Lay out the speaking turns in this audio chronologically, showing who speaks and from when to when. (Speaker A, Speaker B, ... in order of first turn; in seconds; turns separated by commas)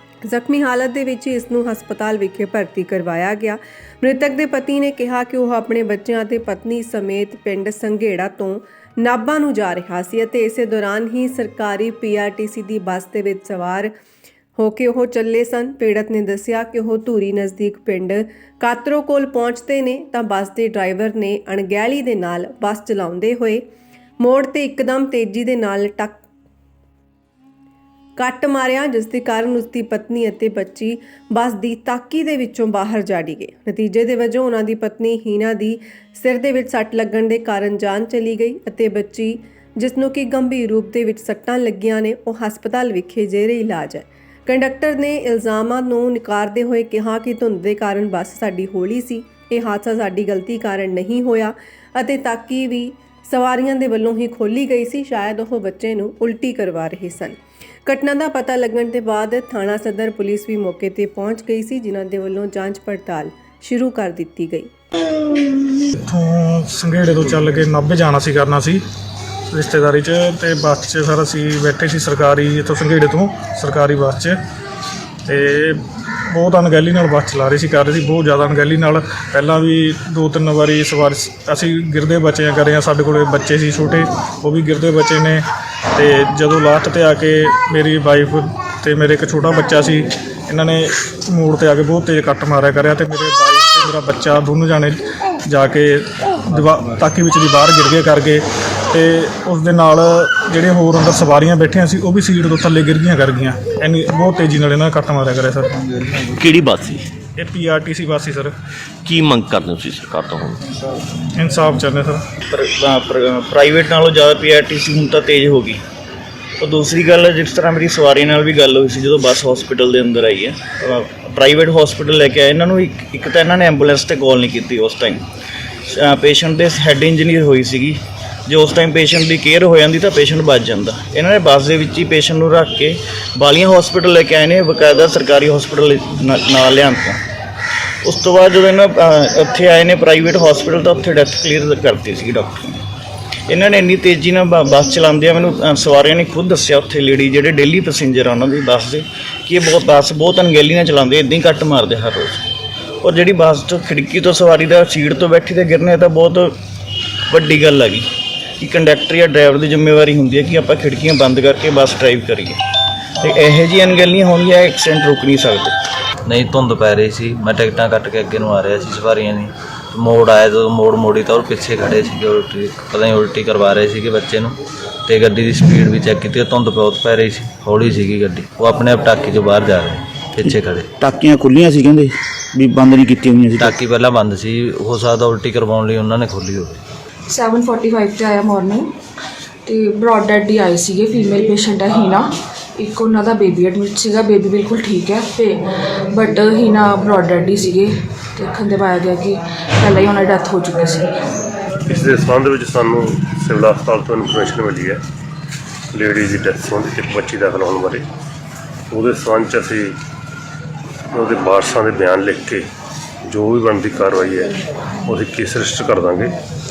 Speaker A: 0.2-13.9, Speaker A: 14.6-23.7, Speaker A: 24.2-26.2, Speaker A: 28.2-64.7, Speaker B: 66.0-68.8, Speaker B: 69.5-74.4, Speaker B: 75.3-85.4, Speaker B: 86.0-105.8, Speaker C: 106.2-107.1, Speaker B: 107.4-108.5, Speaker C: 109.0-110.6, Speaker B: 111.3-112.2, Speaker D: 112.5-115.8, Speaker D: 116.6-125.2, Speaker D: 125.9-137.2, Speaker D: 138.0-142.8, Speaker D: 143.5-152.5, Speaker D: 153.0-156.5, Speaker D: 157.3-158.1, Speaker D: 158.6-162.6, Speaker D: 163.2-165.8, Speaker E: 166.3-174.6, Speaker E: 175.1-180.9, Speaker F: 180.5-183.8, Speaker E: 183.6-186.8, Speaker G: 187.3-188.9, Speaker G: 189.7-201.1, Speaker H: 201.9-205.0, Speaker H: 205.9-208.1, Speaker H: 208.9-210.0, Speaker H: 211.1-212.7, Speaker H: 213.3-214.5, Speaker H: 215.1-216.4